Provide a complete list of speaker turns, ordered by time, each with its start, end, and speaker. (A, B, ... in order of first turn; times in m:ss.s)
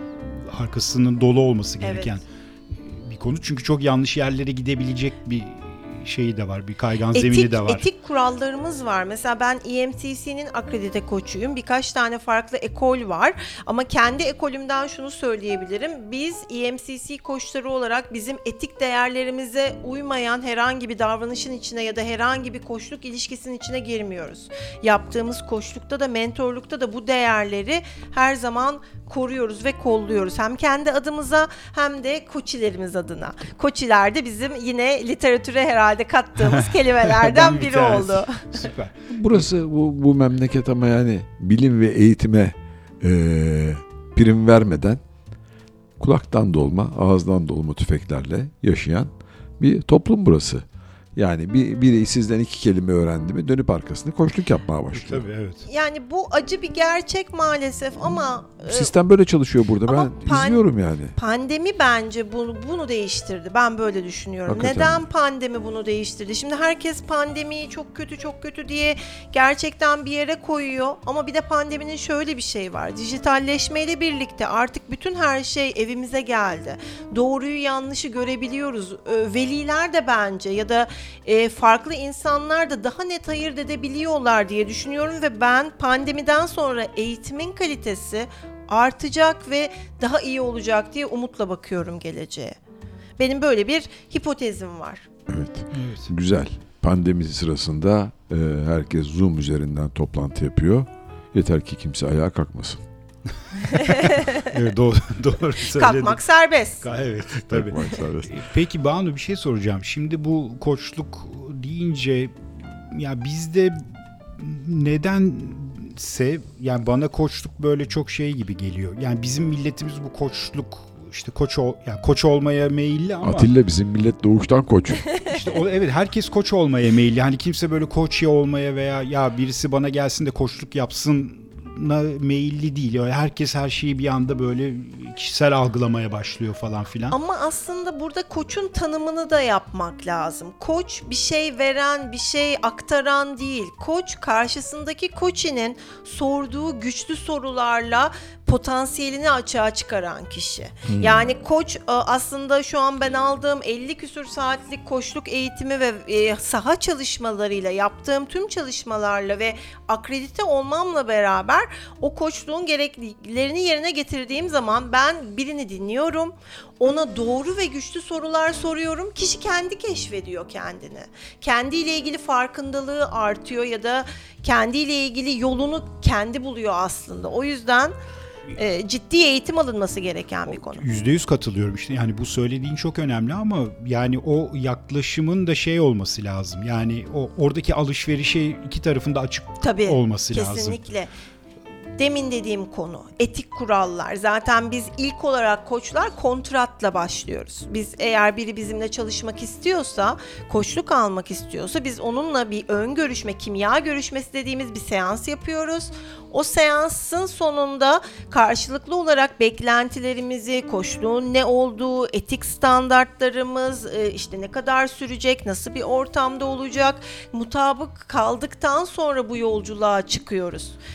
0:00.3-0:07.9 A
0:01.8-0:02.2 B
0:07.1-0:38.7 B
0:36.4-0:39.5 A
0:39.1-0:45.0 C
0:46.0-0:50.6 C
0:51.1-0:55.3 C
0:54.9-0:55.6 A
0:55.6-0:58.9 B
0:58.6-1:01.1 C
0:59.9-1:00.6 B
1:01.2-1:32.6 B
1:04.5-1:05.0 C
1:33.2-1:35.0 B
1:35.3-1:42.8 C
1:35.7-1:36.1 A
1:43.7-1:44.5 B
1:44.5-1:46.2 A
1:45.7-1:46.9 B
1:46.8-2:03.5 A
1:47.4-1:48.3 C
2:03.2-2:05.2 C
2:05.3-2:17.2 A
2:17.1-2:58.0 B
2:30.9-2:31.3 C
2:58.5-3:00.8 B
3:00.6-3:10.9 A
3:09.6-3:11.1 B
3:12.0-3:40.8 B